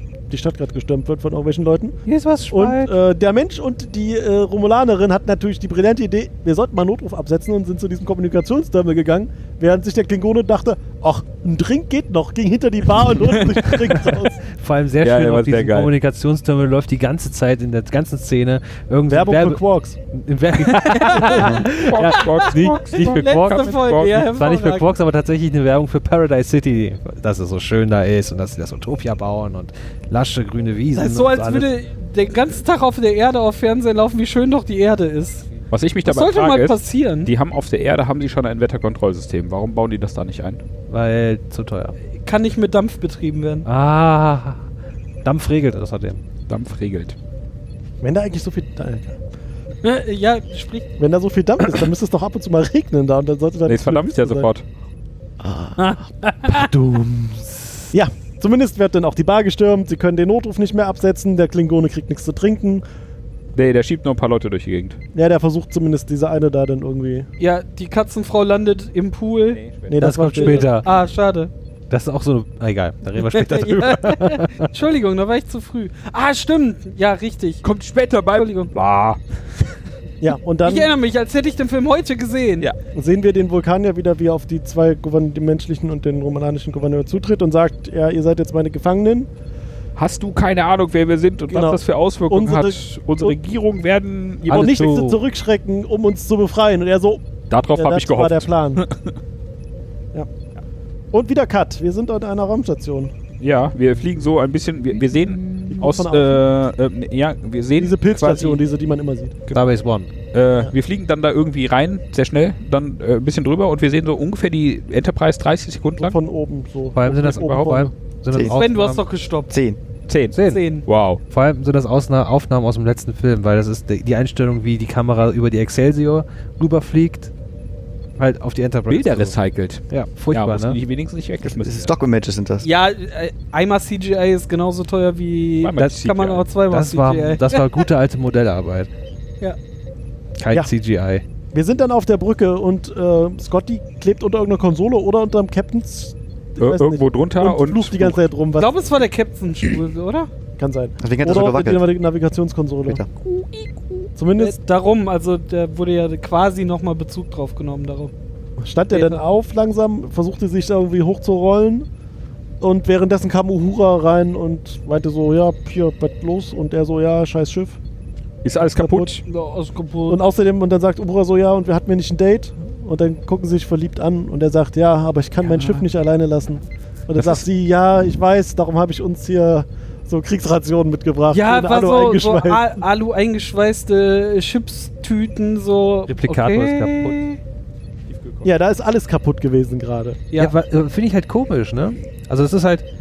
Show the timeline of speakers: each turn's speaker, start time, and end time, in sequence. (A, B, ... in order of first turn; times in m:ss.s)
0:00.3-0:02.0 A
0:02.1-0:02.9 B
0:02.5-0:14.4 A
0:14.4-0:19.6 B
0:15.0-0:15.9 C
0:19.1-0:20.0 A
0:20.1-0:31.7 B
0:20.6-0:24.9 D
0:21.1-0:24.2 C
0:30.9-0:35.5 D
0:35.7-0:40.6 C
0:36.0-0:37.3 D
0:40.9-0:41.9 B
0:42.2-0:43.7 D
0:43.7-0:44.6 B
0:45.2-0:46.2 B
0:46.5-0:47.2 C
0:48.0-0:49.2 A
0:49.8-0:50.9 D
0:51.0-0:54.5 A
0:53.7-0:54.6 C
0:55.4-0:55.8 A
0:55.8-0:56.7 D
0:56.5-0:57.9 B
0:57.9-1:02.8 A
1:03.6-1:05.0 C
1:05.1-1:07.3 A
1:07.4-1:09.6 D
1:09.5-1:10.0 C
1:09.9-1:10.7 A
1:10.0-1:10.9 B
1:10.3-1:11.5 D
1:11.9-1:14.7 B
1:13.2-1:17.6 D
1:17.6-1:19.2 C
1:18.3-1:18.7 D
1:20.2-1:20.9 A
1:20.6-1:22.7 D
1:22.9-1:29.3 A
1:30.0-1:34.8 C
1:31.5-1:33.4 A
1:34.5-1:38.8 A
1:34.5-1:35.2 B
1:37.5-1:39.1 C
1:41.1-1:43.1 A
1:43.4-1:48.6 C
1:45.7-1:46.4 A
1:47.8-1:49.4 A
1:49.5-1:50.1 B
1:50.3-1:56.2 C
1:56.0-1:57.9 A
1:57.0-1:59.0 B
1:57.2-1:57.8 C
1:58.3-1:58.6 E
1:58.5-1:59.5 D
1:59.5-1:59.8 E
2:00.1-2:01.2 C
2:00.3-2:00.6 B
2:00.4-2:00.9 D
2:01.3-2:07.3 B
2:08.2-2:09.4 B
2:08.9-2:12.0 C
2:09.9-2:10.8 B
2:11.4-2:12.7 E
2:12.6-2:17.8 D
2:15.6-2:16.5 C
2:15.8-2:16.1 B
2:16.6-2:18.9 B
2:20.4-2:21.2 B
2:21.5-2:28.8 A
2:26.6-2:28.2 C
2:28.6-2:30.3 D
2:30.6-2:33.0 A
2:31.0-2:31.9 E
2:33.2-2:38.1 D
2:34.2-2:34.6 A
2:38.6-2:41.9 A
2:38.9-2:39.2 D
2:42.6-2:47.8 A
2:48.4-2:49.2 C
2:48.8-2:49.2 A
2:49.3-2:50.2 D
2:50.1-3:02.8 A
2:55.5-2:55.8 C
3:01.3-3:07.4 D
3:06.1-3:07.2 B
3:08.1-3:08.5 C
3:08.4-3:10.2 A
3:10.4-3:12.8 B